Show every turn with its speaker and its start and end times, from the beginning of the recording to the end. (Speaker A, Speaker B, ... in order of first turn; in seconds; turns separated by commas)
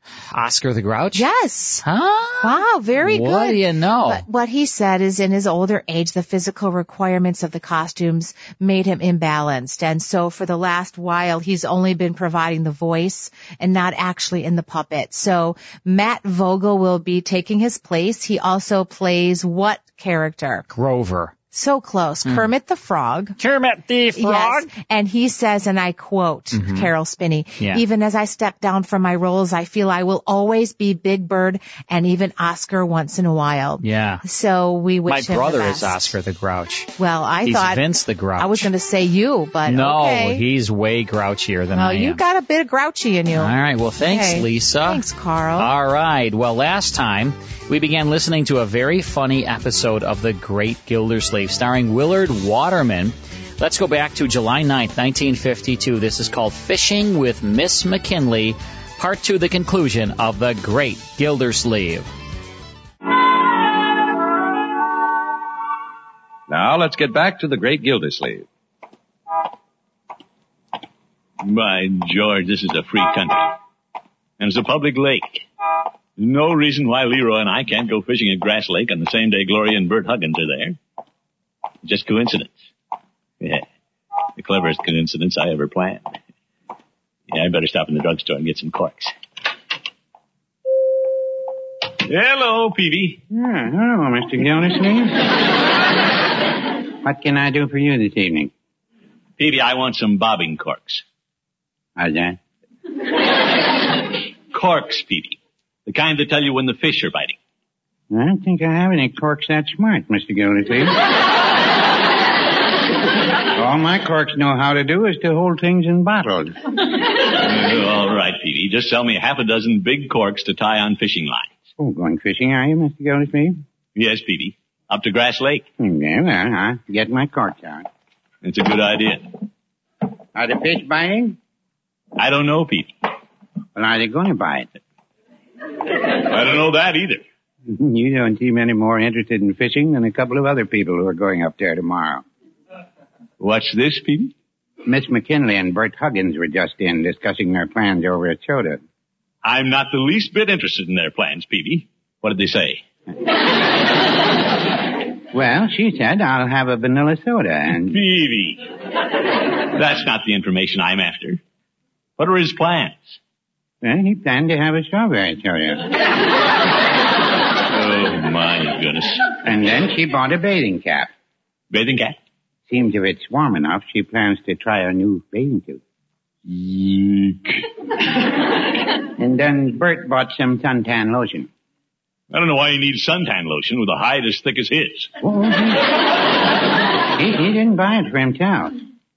Speaker A: 0.3-1.3, Speaker B: 1.1-1.8, Speaker A: 1.8-4.2, Speaker B: 2.4-20.7, Speaker A: 20.7-21.3, Speaker B: 21.5-23.4, Speaker A: 23.4-24.7, Speaker B: 24.1-36.1, Speaker A: 26.5-26.9, Speaker A: 33.8-34.2, Speaker A: 35.0-38.7, Speaker B: 37.0-37.8, Speaker B: 38.4-40.4, Speaker A: 39.6-42.2, Speaker B: 41.7-45.7, Speaker A: 43.4-45.0, Speaker A: 45.6-62.1, Speaker C: 66.5-68.5, Speaker D: 71.4-73.5, Speaker D: 74.4-75.5, Speaker D: 76.2-80.8, Speaker D: 81.8-82.7, Speaker D: 83.4-83.7, Speaker D: 84.3-86.2, Speaker D: 87.3-89.1, Speaker D: 92.0-93.2, Speaker E: 93.3-95.3, Speaker E: 97.0-98.5, Speaker D: 99.4-101.0, Speaker E: 102.0-102.4, Speaker D: 104.5-107.4, Speaker E: 108.1-111.0, Speaker E: 113.5-116.6, Speaker D: 117.4-121.5, Speaker E: 121.8-123.6, Speaker D: 123.9-125.6, Speaker E: 125.8-127.8, Speaker D: 128.4-129.3, Speaker E: 130.3-131.4, Speaker D: 132.2-132.9, Speaker E: 133.7-134.7, Speaker D: 136.1-137.2, Speaker E: 137.7-142.2, Speaker D: 143.4-144.3, Speaker E: 144.8-148.8, Speaker D: 149.4-152.8, Speaker E: 155.3-158.0, Speaker D: 157.9-158.7, Speaker D: 159.7-161.4, Speaker D: 162.2-163.2, Speaker E: 163.8-165.9, Speaker D: 167.7-169.2, Speaker E: 169.4-171.1, Speaker D: 171.7-172.2, Speaker E: 172.7-175.8, Speaker D: 176.4-177.6, Speaker E: 179.2-181.5, Speaker D: 182.3-185.1, Speaker E: 185.2-185.9, Speaker E: 187.2-188.8